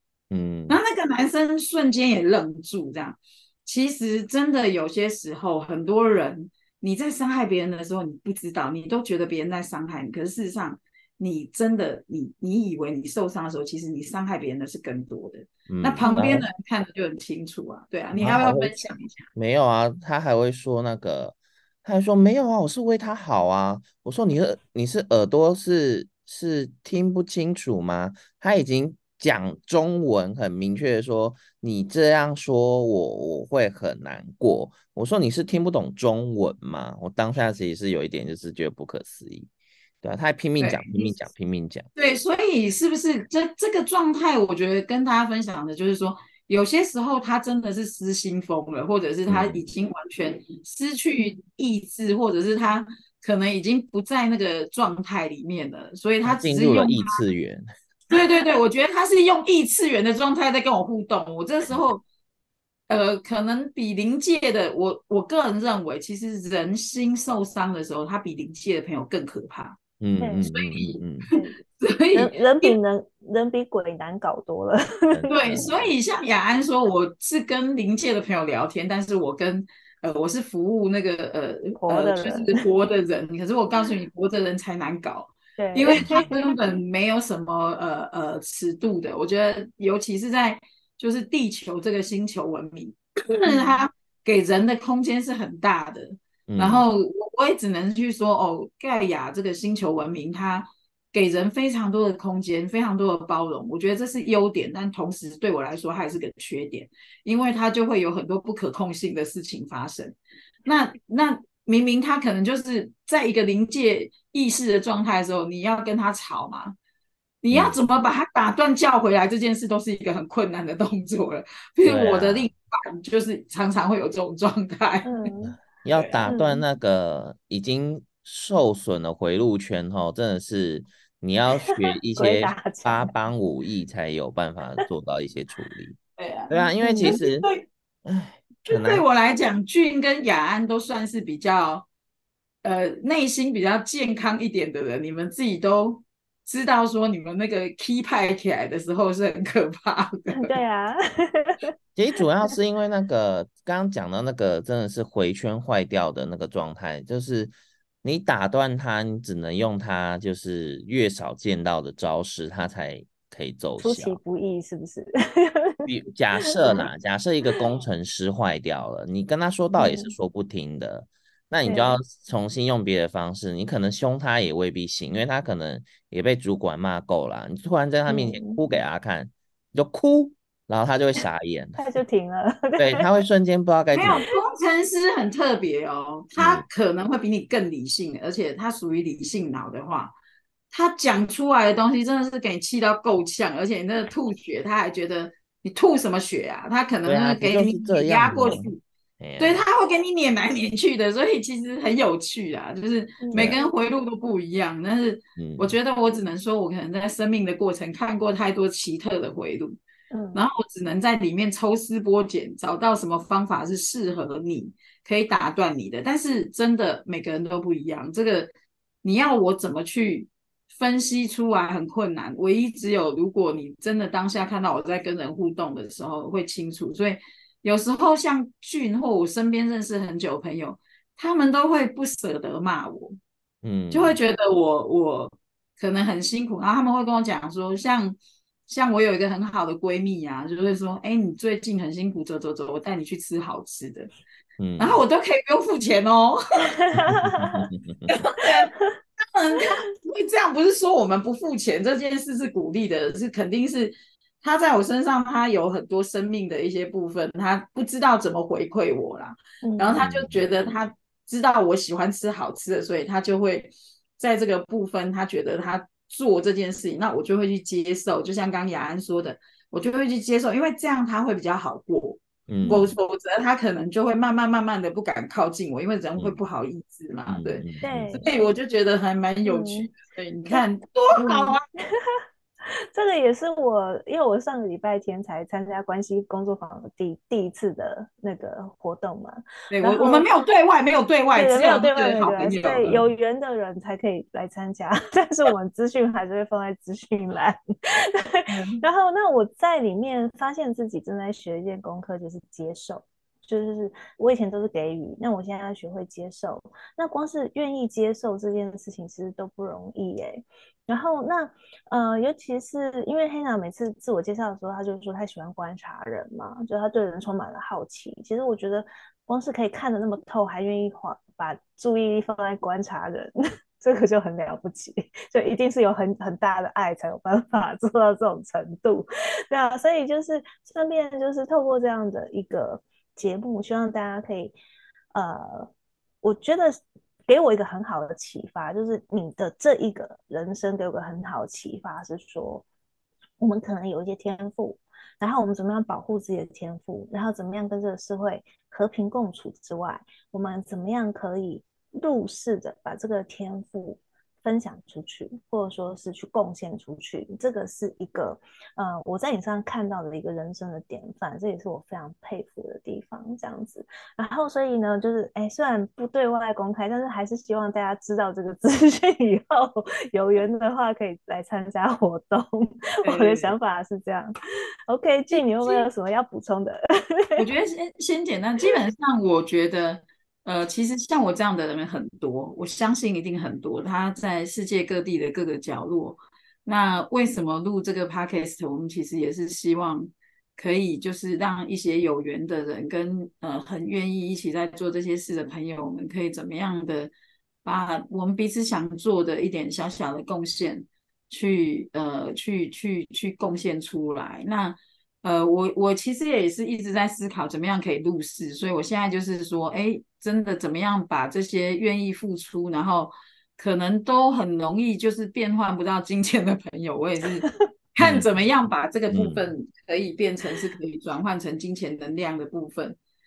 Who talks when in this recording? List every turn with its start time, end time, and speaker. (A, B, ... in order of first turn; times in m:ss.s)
0:00.3-0:00.8 A
0:00.7-0:19.3 B
0:15.7-0:16.5 A
0:16.0-0:16.4 C
0:18.1-0:18.8 A
0:19.3-0:39.5 A
0:40.0-0:41.8 A
0:40.6-0:41.2 B
0:42.0-0:57.2 B
0:49.3-0:49.6 A
0:56.2-0:57.6 A
0:58.1-1:02.0 B
1:02.9-1:09.8 B
1:10.0-1:11.3 A
1:10.2-1:10.4 C
1:10.4-1:11.0 B
1:11.8-1:12.8 B
1:12.1-1:15.7 C
1:15.1-1:15.9 A
1:15.3-1:56.8 B
1:21.8-1:22.6 C
1:25.6-1:26.5 C
1:25.9-1:26.2 A
1:33.5-1:33.8 C
1:36.5-1:36.8 A
1:57.4-2:05.3 B
1:57.5-1:57.8 A
2:01.8-2:02.5 A
2:05.0-2:05.5 C
2:05.8-2:16.0 A
2:05.9-2:06.2 B
2:06.2-2:06.6 C
2:12.2-2:13.1 C
2:16.2-2:17.6 B
2:16.5-2:17.5 A
2:16.8-2:17.2 C
2:18.0-2:19.0 A
2:18.7-2:21.9 B
2:22.6-2:30.5 B
2:30.3-2:31.7 C
2:32.0-2:44.2 A
2:43.8-2:45.9 C
2:45.8-3:01.8 A
2:49.8-2:50.1 C
2:51.6-2:52.0 C
2:58.1-2:58.6 C
3:01.8-3:03.1 C
3:02.8-3:04.2 A
3:03.9-3:10.1 B
3:06.4-3:06.6 A
3:10.7-3:18.8 B
3:17.0-3:19.6 A
3:19.4-3:29.8 B
3:23.2-3:23.6 C
3:25.4-3:25.7 A
3:30.1-3:30.4 C
3:30.3-3:38.5 B
3:39.0-3:53.2 B
3:53.6-3:54.2 A
3:53.9-4:04.1 B
4:04.6-4:05.0 A
4:04.8-4:06.8 B
4:06.8-4:07.7 C
4:07.0-4:08.0 A
4:08.1-4:37.6 B
4:08.4-4:08.9 C
4:19.6-4:20.1 C
4:19.9-4:20.4 A
4:32.5-4:32.9 A
4:37.3-4:38.3 A
4:37.8-4:38.2 C
4:38.2-4:41.6 B
4:39.4-4:39.9 C
4:41.2-4:50.2 C
4:49.7-4:53.0 B
4:51.3-5:34.5 C
4:52.8-4:53.1 A
4:58.5-4:58.8 B
5:35.1-5:35.7 C
5:36.2-5:42.6 C
5:43.4-6:14.3 C
6:13.0-6:13.5 B
6:14.9-6:17.4 C
6:15.3-6:15.9 B
6:17.4-6:37.1 B
6:37.6-7:03.0 B
6:58.0-6:58.3 A
6:59.1-6:59.4 A